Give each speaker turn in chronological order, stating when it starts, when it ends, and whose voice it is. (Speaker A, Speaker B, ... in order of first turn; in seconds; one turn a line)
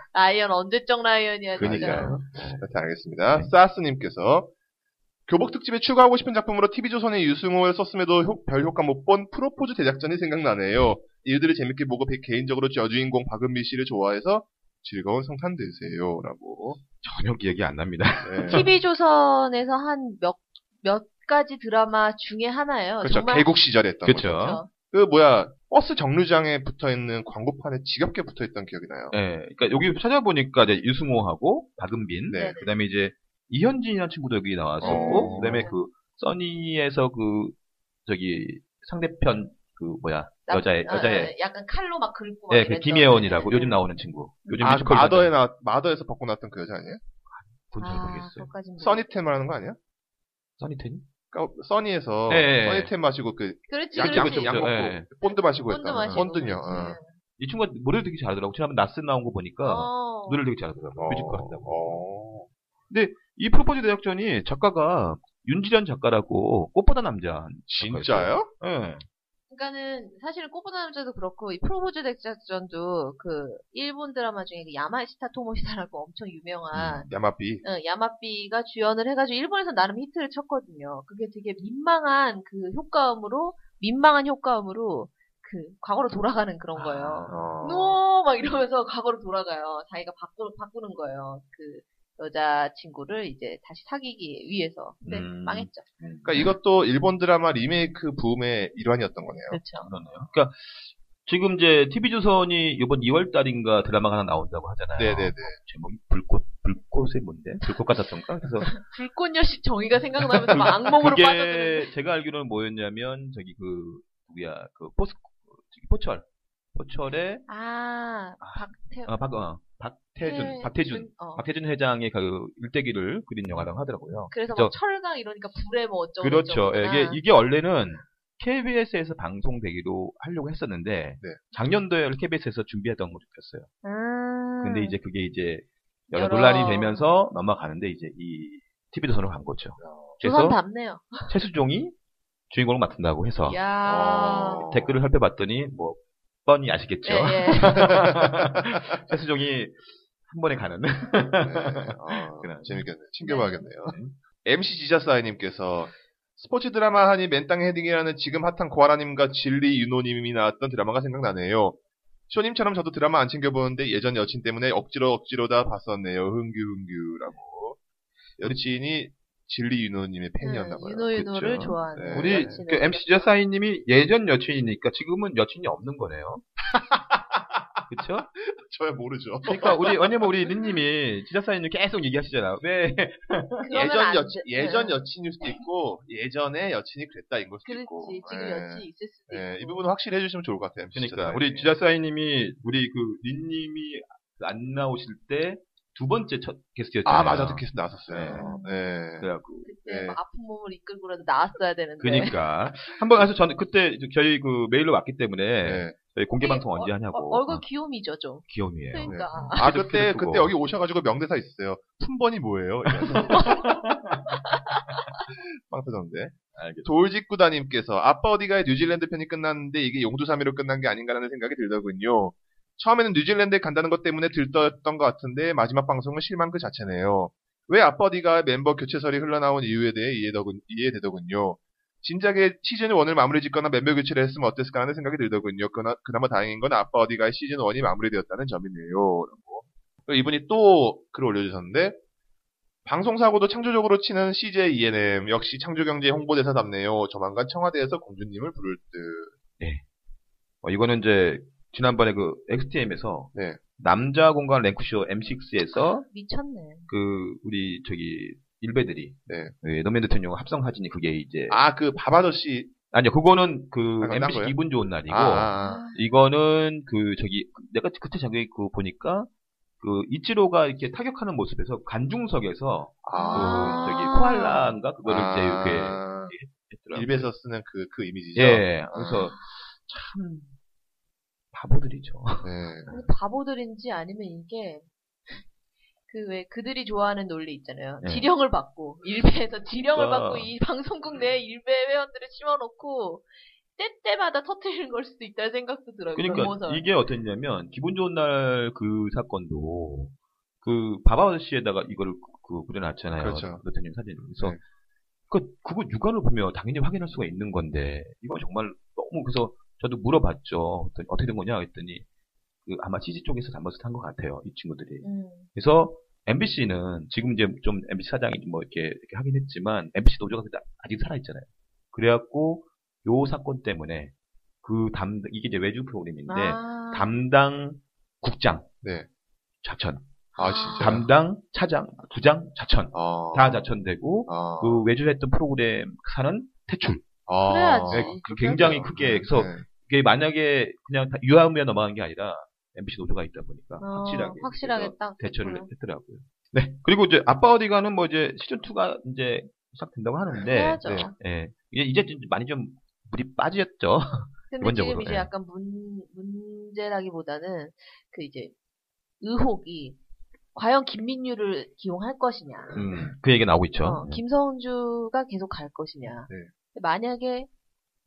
Speaker A: 0.1-2.2
Speaker B: 1.6-2.6
Speaker C: 1.6-4.5
Speaker C: 5.3-16.8
Speaker B: 17.0-18.7
Speaker C: 18.2-18.7
Speaker A: 18.4-23.5
Speaker C: 23.0-29.1
Speaker B: 24.0-24.6
Speaker A: 24.3-24.7
Speaker B: 29.1-41.3
Speaker C: 32.3-32.6
Speaker A: 32.3-32.7
Speaker C: 34.8-35.7
Speaker A: 34.8-35.8
Speaker A: 40.5-43.8
Speaker B: 42.5-45.3
Speaker C: 44.6-47.0
Speaker B: 47.3-48.5
Speaker A: 47.8-49.0
Speaker C: 48.8-49.8
Speaker B: 50.6-51.0
Speaker C: 51.3-57.0
Speaker B: 52.3-52.9
Speaker A: 53.7-54.7
Speaker B: 53.9-55.1
Speaker A: 55.6-57.1
Speaker B: 57.4-62.0
Speaker A: 59.6-60.4
Speaker C: 61.0-62.5
Speaker B: 62.9-69.0
Speaker C: 67.7-68.5
Speaker A: 69.5-77.1
Speaker B: 76.7-77.0
Speaker C: 77.1-77.6
Speaker A: 77.6-95.8
Speaker B: 86.7-87.4
Speaker C: 87.3-88.0
Speaker B: 95.0-96.5
Speaker C: 96.2-99.6
Speaker A: 99.5-99.9
Speaker B: 99.8-108.8
Speaker C: 105.0-105.6
Speaker A: 108.7-111.9
Speaker B: 110.5-117.4
Speaker A: 117.5-119.2
Speaker B: 118.4-124.7
Speaker A: 120.2-121.4
Speaker A: 124.3-127.2
Speaker B: 126.2-133.7
Speaker A: 133.8-134.9
Speaker B: 134.6-140.6
Speaker A: 136.1-137.0
Speaker C: 139.8-140.1
Speaker A: 140.2-141.3
Speaker B: 141.3-141.9
Speaker B: 142.5-143.6
Speaker A: 143.5-144.7
Speaker C: 143.8-145.0
Speaker B: 144.6-152.9
Speaker A: 147.0-148.0
Speaker C: 148.3-148.7
Speaker C: 151.4-161.8
Speaker A: 153.2-153.7
Speaker B: 153.8-154.1
Speaker C: 162.3-167.8
Speaker C: 168.4-171.1
Speaker A: 170.4-173.0
Speaker B: 171.1-176.4
Speaker C: 171.9-172.6
Speaker C: 176.7-180.3
Speaker B: 177.9-178.3
Speaker B: 179.4-183.7
Speaker A: 183.6-185.6
Speaker C: 183.7-191.8
Speaker A: 187.7-189.8
Speaker B: 190.9-198.5
Speaker C: 197.0-199.3
Speaker A: 198.3-198.8
Speaker B: 199.2-199.7
Speaker A: 199.6-202.3
Speaker C: 199.8-200.2
Speaker B: 202.0-207.6
Speaker C: 205.6-205.9
Speaker A: 206.4-209.7
Speaker B: 208.4-210.5
Speaker C: 209.0-213.8
Speaker B: 213.1-214.2
Speaker A: 213.2-213.7
Speaker A: 214.3-214.8
Speaker C: 215.3-242.0
Speaker B: 216.5-216.9
Speaker C: 242.8-249.3
Speaker B: 250.6-256.1
Speaker C: 253.3-253.6
Speaker A: 256.0-256.9
Speaker B: 256.9-261.6
Speaker C: 259.3-259.5
Speaker C: 261.5-262.7
Speaker B: 262.9-269.3
Speaker C: 264.0-264.6
Speaker C: 265.1-265.9
Speaker A: 265.6-266.0
Speaker B: 269.8-277.3
Speaker C: 273.0-274.0
Speaker A: 273.1-274.6
Speaker C: 275.0-276.3
Speaker C: 276.9-279.3
Speaker B: 278.3-280.6
Speaker B: 281.5-282.5
Speaker C: 282.4-282.9
Speaker A: 282.9-285.4
Speaker A: 286.1-296.8
Speaker B: 288.0-288.3
Speaker B: 289.9-290.5
Speaker B: 296.1-304.6
Speaker C: 303.2-303.6
Speaker B: 305.3-312.0
Speaker B: 312.6-328.7
Speaker A: 315.0-315.4
Speaker A: 326.3-327.1
Speaker B: 329.6-330.0
Speaker A: 330.4-330.9
Speaker C: 330.4-331.1
Speaker B: 330.8-337.1
Speaker C: 332.9-333.6
Speaker C: 334.3-334.9
Speaker C: 337.3-339.7
Speaker A: 337.4-338.6
Speaker B: 337.9-355.3
Speaker A: 343.8-345.7
Speaker C: 350.3-351.1
Speaker A: 350.4-351.1
Speaker A: 354.5-358.5
Speaker A: 359.2-360.0
Speaker A: 360.5-362.8
Speaker B: 362.7-364.2
Speaker A: 363.8-367.5